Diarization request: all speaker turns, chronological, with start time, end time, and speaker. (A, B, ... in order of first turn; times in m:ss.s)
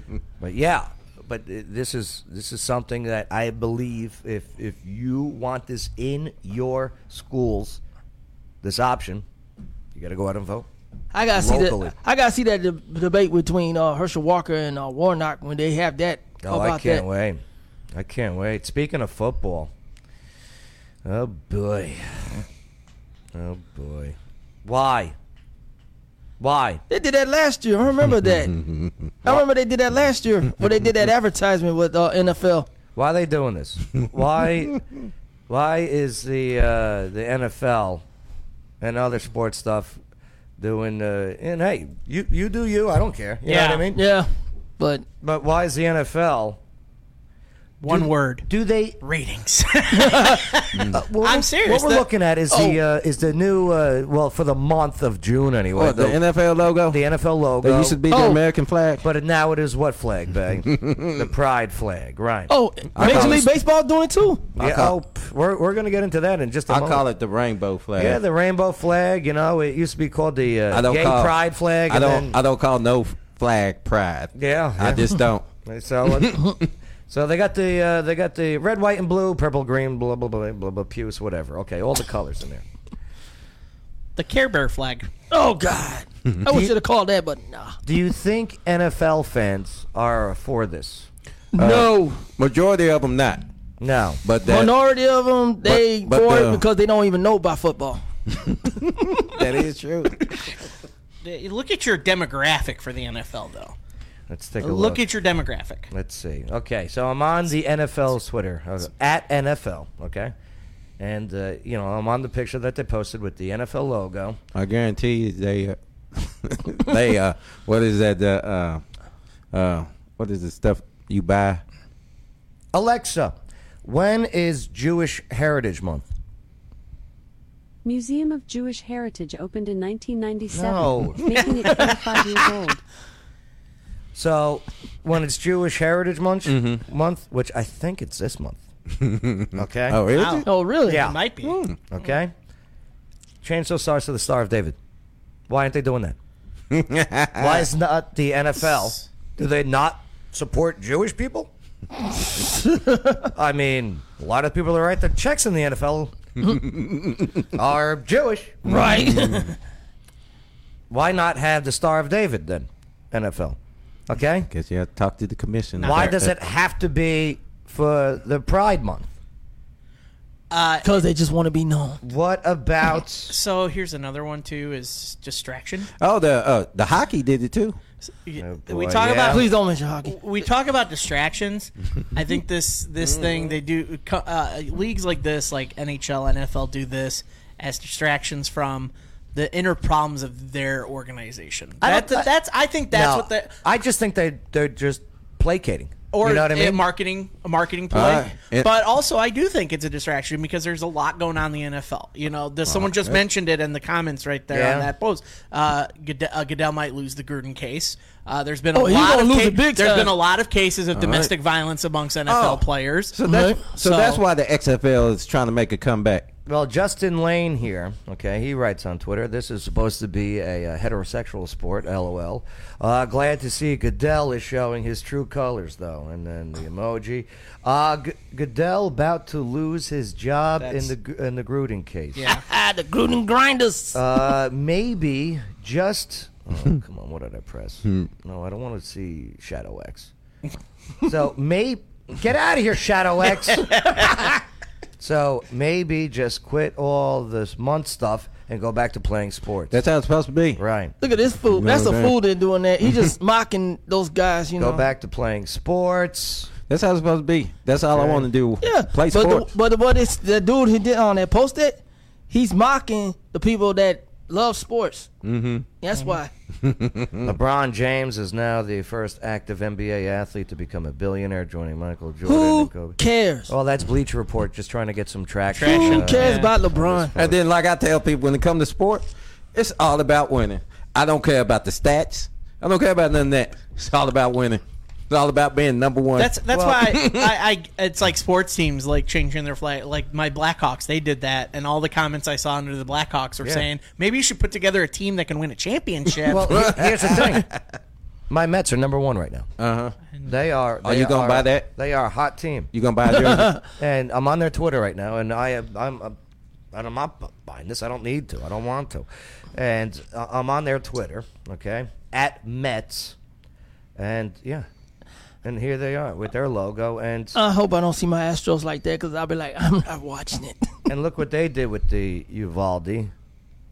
0:00.4-0:07.8 A
0:08.6-0:09.2 A
0:09.9-0:10.7 A
0:11.1-0:17.0 B
0:11.3-0:11.9 A
0:16.4-0:17.4 A
0:17.9-0:19.7 A
0:21.0-0:22.4 A
0:23.3-0:25.1 A
0:26.4-0:26.8 A
0:26.9-0:28.5 B
0:28.1-0:29.3 C
0:29.2-0:32.7 B
0:32.9-0:34.8 A
0:35.5-0:38.0 A
0:38.8-0:40.0 A
0:40.6-0:44.0 A
0:43.4-0:43.8 D
0:43.9-0:45.0 B
0:45.2-0:46.6 A
0:47.8-0:48.5 D
0:47.8-0:49.0 A
0:49.0-0:52.0 D
0:50.0-0:50.4 B
0:50.9-0:56.2 A
0:52.5-0:52.8 B
0:55.8-0:57.0 C
0:56.9-0:58.0 A
0:57.6-0:59.0 C
0:58.1-0:58.4 B
0:59.0-1:03.4 A
1:00.7-1:01.1 C
1:02.5-1:04.6 B
1:02.9-1:03.5 C
1:04.6-1:07.0 A
1:04.6-1:04.9 C
1:06.7-1:08.2 C
1:08.0-1:12.4 A
1:10.7-1:15.5 C
1:14.3-1:16.4 A
1:16.1-1:16.4 C
1:17.1-1:22.6 A
1:24.2-1:25.1 D
1:25.3-1:27.8 B
1:27.8-1:31.1 A
1:31.5-1:32.2 B
1:31.6-1:33.4 C
1:33.8-1:34.2 A
1:34.2-1:34.7 C
1:34.4-1:38.0 B
1:35.6-1:36.6 C
1:39.3-1:40.4 C
1:41.2-1:43.8 D
1:44.3-1:45.0 A
1:44.6-1:45.9 D
1:45.9-1:50.3 A
1:51.0-1:54.4 A
1:54.5-1:58.8 C
1:59.5-2:01.6 C
2:02.7-2:06.0 A
2:07.8-2:12.8 E
2:10.5-2:11.8 A
2:14.1-2:18.6 A
2:16.5-2:16.8 C
2:18.9-2:20.5 C
2:19.5-2:20.0 A
2:20.1-2:21.6 D
2:20.4-2:21.1 B
2:20.9-2:21.2 A
2:21.4-2:21.8 C
2:21.9-2:22.3 A
2:23.4-2:24.8 A
2:25.5-2:26.2 A
2:26.7-2:27.6 C
2:27.4-2:31.5 A
2:28.7-2:29.0 D
2:32.7-2:33.2 B
2:33.3-2:36.2 A
2:36.4-2:37.3 C
2:37.5-2:38.8 A
2:38.6-2:39.6 B
2:38.7-2:39.5 C
2:40.9-2:43.6 A
2:44.1-2:44.5 A
2:44.5-2:46.3 C
2:45.8-2:46.2 D
2:45.8-2:49.1 A
2:50.5-2:51.0 D
2:50.8-2:52.0 B
2:52.0-2:53.3 A
2:53.3-2:55.9 D
2:56.0-2:57.8 C
2:58.2-2:59.5 D
2:58.4-2:59.5 A
2:59.3-3:00.2 B
3:00.0-3:13.5 D
3:03.0-3:03.4 C
3:11.8-3:12.3 A
3:12.9-3:16.8 A
3:16.1-3:33.2 D
3:17.9-3:18.7 C
3:22.7-3:23.2 C
3:24.5-3:24.9 A
3:28.7-3:30.2 B
3:30.9-3:31.3 C
3:32.3-3:36.3 C
3:33.2-3:33.6 B
3:33.7-3:34.2 D
3:36.4-3:52.4 A
3:50.6-3:50.9 D
3:52.2-3:52.4 D
3:52.3-3:54.0 B
3:53.9-4:00.1 A
4:01.0-4:04.0 A
4:05.0-4:09.8 A
4:09.7-4:10.6 C
4:10.6-4:10.9 A
4:11.0-4:14.8 B
4:11.5-4:12.2 C
4:12.8-4:13.1 C
4:14.6-4:16.5 A
4:16.7-4:19.5 C
4:17.9-4:18.3 A
4:18.6-4:25.1 B
4:25.2-4:25.7 C
4:25.8-4:26.3 B
4:26.6-4:27.3 C
4:27.2-4:37.4 A
4:32.2-4:33.5 B
4:35.5-4:36.5 D
4:35.6-4:37.2 B
4:37.2-4:46.4 C
4:46.2-4:56.7 D
4:46.5-4:46.8 A
4:46.9-4:47.3 C
4:56.3-4:57.5 A
4:56.5-4:57.4 C
4:58.3-4:59.5 A
4:59.6-4:59.9 C
5:00.2-5:02.7 A
5:00.8-5:01.6 C
5:02.7-5:03.6 C
5:03.1-5:03.6 B
5:03.8-5:06.2 A
5:06.7-5:13.2 A
5:14.0-5:14.7 A
5:15.4-5:17.4 A
5:17.3-5:20.7 B
5:20.9-5:23.1 A